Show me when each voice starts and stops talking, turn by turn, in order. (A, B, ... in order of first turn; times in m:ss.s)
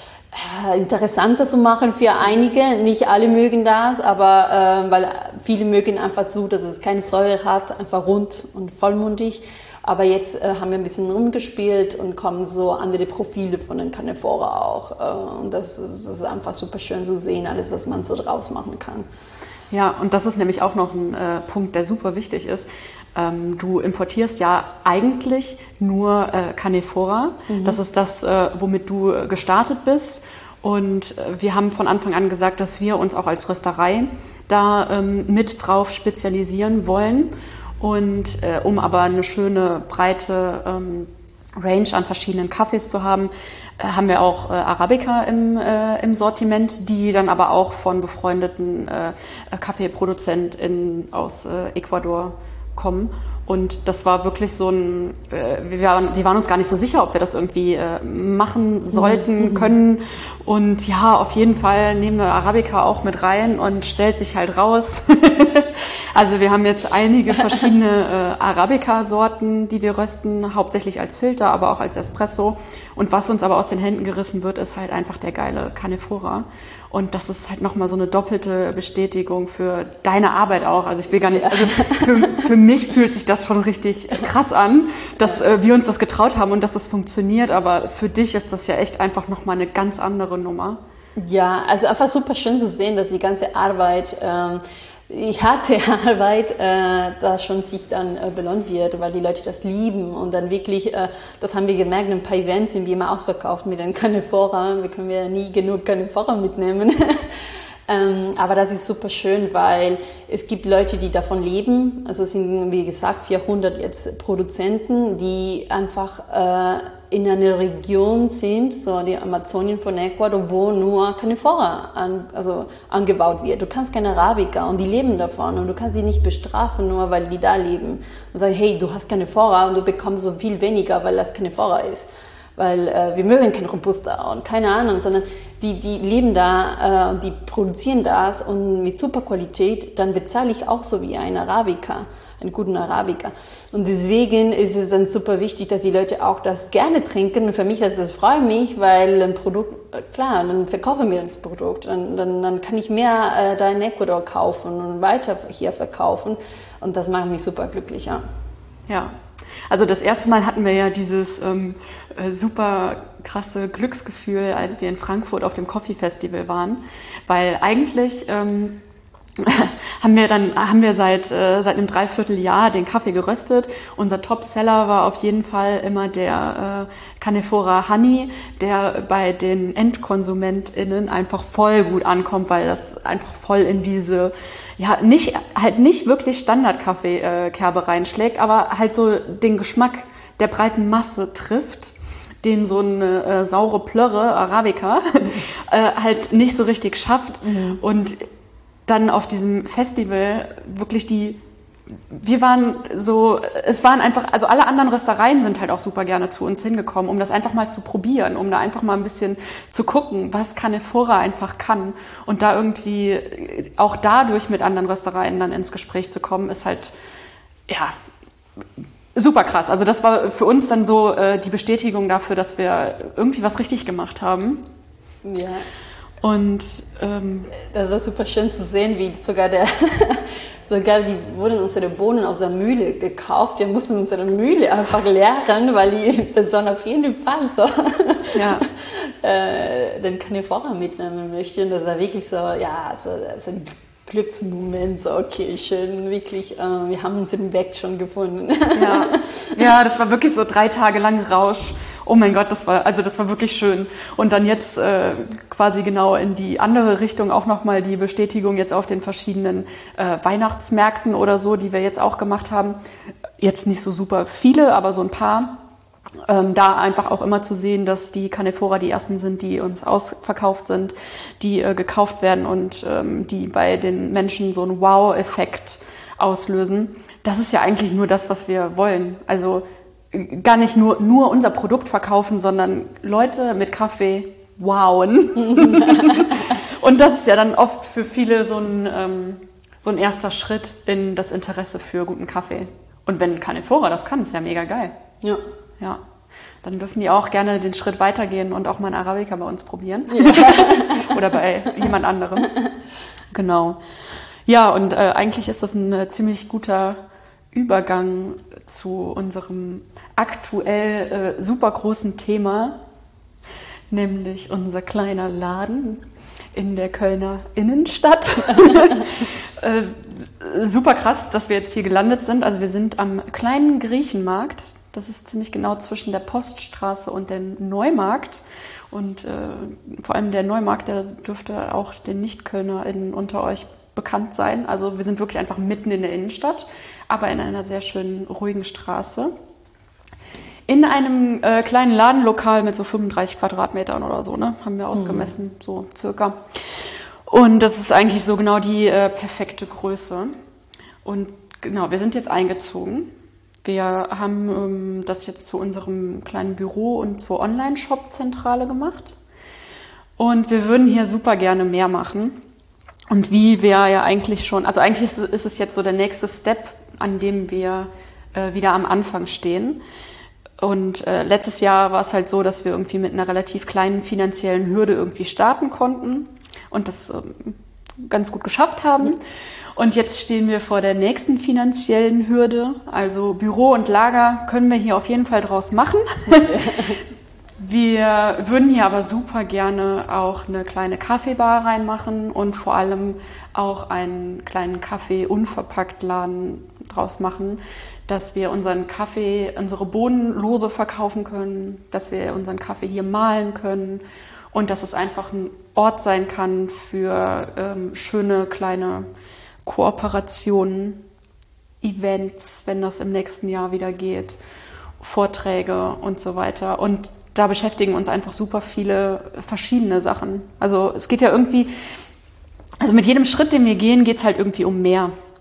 0:00.3-0:19.0 A
0:19.7-1:30.8 B
0:27.5-0:27.8 A
0:59.0-0:59.6 A
1:21.3-1:22.5 A
1:31.2-2:38.2 A
2:38.9-2:39.1 B
2:39.7-2:48.8 B
2:49.4-3:18.2 B
3:17.5-3:17.8 A
3:18.8-3:21.4 B
3:22.1-3:36.9 B
3:37.7-3:37.9 B
3:39.1-3:44.6 B
3:45.2-3:45.6 A
3:46.2-3:47.5 B
3:47.5-4:09.6 A
3:58.3-3:58.6 B
4:08.7-4:22.8 B
4:23.4-4:25.6 B
4:26.3-4:54.9 B
4:45.4-4:46.5 A
4:56.6-5:02.5 B
5:00.1-5:01.1 A
5:03.3-5:03.8 B
5:04.4-5:07.0 B
5:07.5-5:12.8 B
5:13.9-5:16.0 B
5:16.5-5:39.3 B
5:40.7-5:50.3 B
5:44.9-5:45.3 A
5:51.0-5:53.1 B
5:53.6-5:59.2 B
6:00.2-6:02.4 B
6:03.1-6:09.8 B
6:10.6-6:19.2 B
6:19.7-6:26.7 B
6:26.3-6:27.0 A
6:27.6-6:49.1 B
6:49.6-6:51.0 B
6:51.8-6:54.4 B
6:55.0-7:01.7 B
7:02.8-7:05.1 B